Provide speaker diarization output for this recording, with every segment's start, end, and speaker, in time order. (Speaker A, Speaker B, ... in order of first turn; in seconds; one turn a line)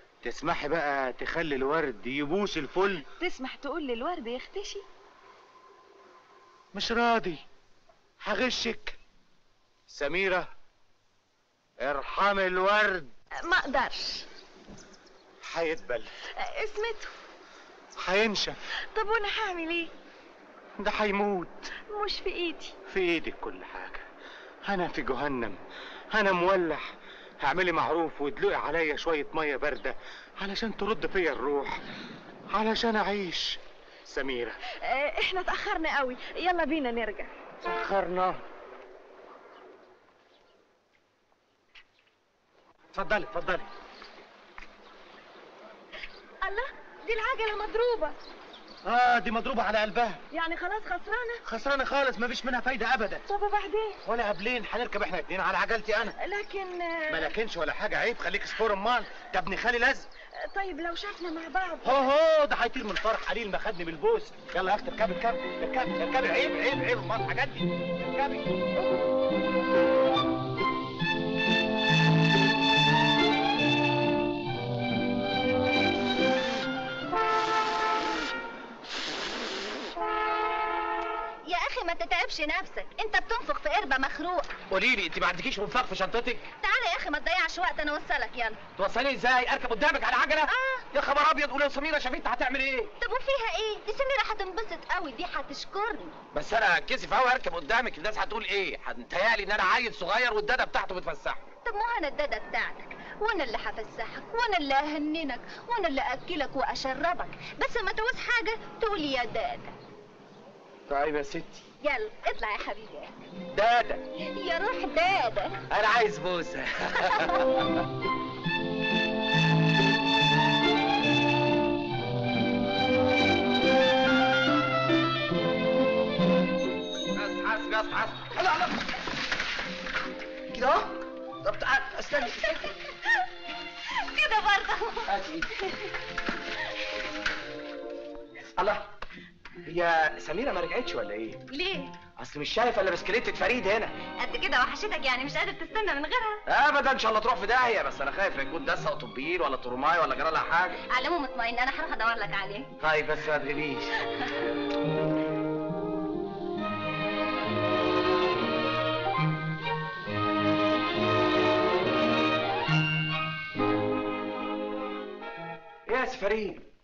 Speaker A: 0.2-3.0
Speaker B: 3.2-4.8
Speaker A: 6.7-7.4
Speaker A: 8.2-9.0
Speaker A: 9.9-10.5
Speaker A: 11.8-13.1
Speaker B: 13.4-14.2
Speaker A: 15.4-16.1
Speaker B: 16.4-17.1
Speaker A: 18.0-18.6
Speaker B: 18.9-19.9
Speaker A: 20.8-21.7
Speaker B: 21.9-22.7
Speaker A: 22.9-24.0
Speaker A: 24.7-25.6
Speaker A: 26.1-26.9
Speaker A: 27.4-31.8
Speaker A: 32.5-34.6
Speaker B: 34.8-37.3
Speaker A: 37.6-38.4
Speaker A: 42.9-43.7
Speaker B: 46.4-48.1
Speaker A: 48.9-50.2
Speaker B: 50.3-51.4
Speaker A: 51.5-53.2
Speaker B: 53.3-54.0
Speaker A: 54.0-56.2
Speaker B: 56.2-57.3
Speaker A: 57.1-60.1
Speaker B: 60.5-62.0
Speaker A: 61.8-68.6
Speaker C: 81.5-84.5
Speaker D: 84.7-86.5
Speaker C: 86.6-88.6
Speaker D: 88.8-92.9
Speaker C: 90.5-90.9
Speaker C: 93.0-96.2
Speaker D: 96.3-101.5
Speaker C: 101.7-109.8
Speaker D: 110.9-111.7
Speaker C: 111.8-113.2
Speaker D: 113.5-114.0
Speaker C: 114.2-115.6
Speaker D: 115.7-117.4
Speaker D: 127.1-128.9
Speaker D: 130.5-130.9
Speaker D: 131.4-132.7
Speaker C: 134.0-135.1
Speaker D: 135.1-135.7
Speaker D: 138.6-138.9
Speaker D: 139.7-141.4
Speaker C: 141.5-141.9
Speaker D: 142.2-143.9
Speaker C: 144.2-146.4
Speaker D: 146.5-150.8
Speaker C: 150.9-152.7
Speaker D: 152.8-153.9
Speaker D: 165.9-166.6